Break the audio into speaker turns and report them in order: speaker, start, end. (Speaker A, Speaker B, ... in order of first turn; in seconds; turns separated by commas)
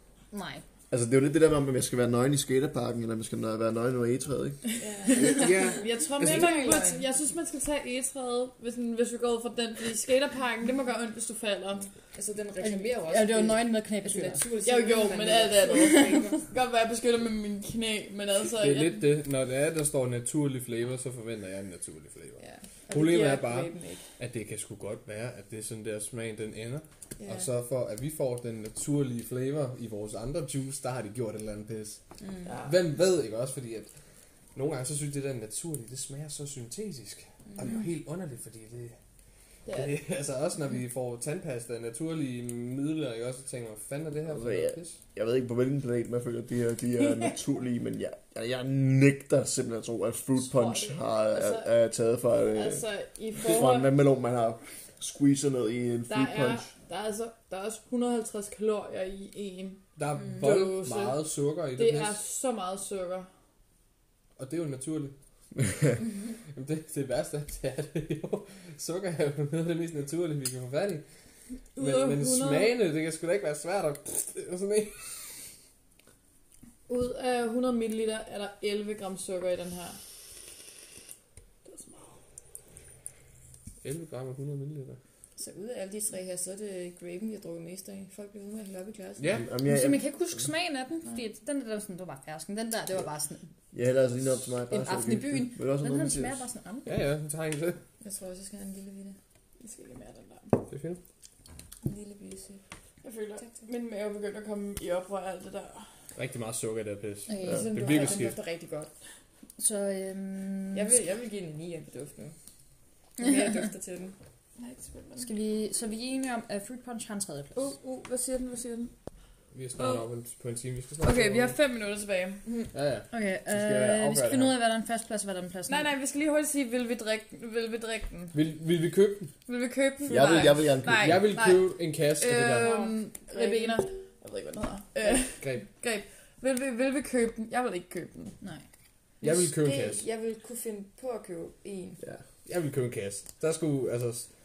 Speaker A: 0.3-0.6, Speaker B: 0.9-4.6, Speaker C: 4.8-7.0, Speaker D: 5.1-11.9, Speaker E: 5.1-6.8, Speaker C: 12.1-16.4, Speaker A: 12.6-14.4, Speaker D: 14.6-19.0, Speaker E: 18.5-32.0, Speaker C: 22.4-24.0, Speaker D: 23.1-23.4, Speaker C: 27.2-27.5, Speaker C: 32.2-32.6, Speaker D: 32.5-32.7, Speaker E: 32.6-33.9, Speaker E: 34.5-39.0, Speaker D: 39.7-40.0, Speaker E: 39.7-45.0, Speaker B: 44.3-52.9, Speaker D: 50.4-51.7, Speaker D: 52.5-53.9, Speaker B: 53.4-56.7, Speaker D: 56.1-61.2, Speaker E: 60.0-62.2, Speaker D: 61.7-63.3, Speaker E: 64.4-65.1, Speaker E: 66.5-71.0, Speaker D: 71.8-72.8, Speaker E: 71.8-75.2, Speaker D: 76.9-80.0, Speaker D: 81.6-82.2, Speaker E: 83.8-85.0, Speaker C: 85.4-89.4, Speaker E: 89.2-89.5, Speaker B: 89.4-90.1, Speaker A: 89.7-93.5, Speaker B: 93.7-96.4, Speaker A: 94.7-97.0, Speaker E: 96.9-97.8, Speaker C: 98.0-99.2, Speaker D: 99.6-100.6, Speaker E: 100.7-101.0, Speaker C: 101.8-102.6, Speaker D: 103.0-105.9, Speaker C: 103.4-103.7, Speaker E: 106.2-108.4, Speaker A: 107.3-107.7, Speaker C: 107.4-108.9, Speaker A: 109.6-111.0, Speaker C: 110.7-112.3, Speaker C: 113.2-114.1, Speaker D: 114.6-115.3, Speaker A: 115.2-117.7, Speaker D: 117.5-118.9, Speaker E: 119.5-121.5, Speaker D: 119.8-120.1, Speaker D: 121.0-122.5, Speaker E: 122.7-124.5, Speaker A: 123.1-125.9, Speaker D: 125.7-128.4, Speaker E: 128.3-129.3, Speaker D: 129.4-131.6, Speaker B: 130.1-131.3, Speaker E: 131.0-132.9, Speaker D: 132.2-138.4, Speaker C: 132.7-133.8, Speaker E: 135.4-135.7, Speaker E: 139.2-140.0, Speaker C: 139.2-142.0, Speaker E: 142.4-144.3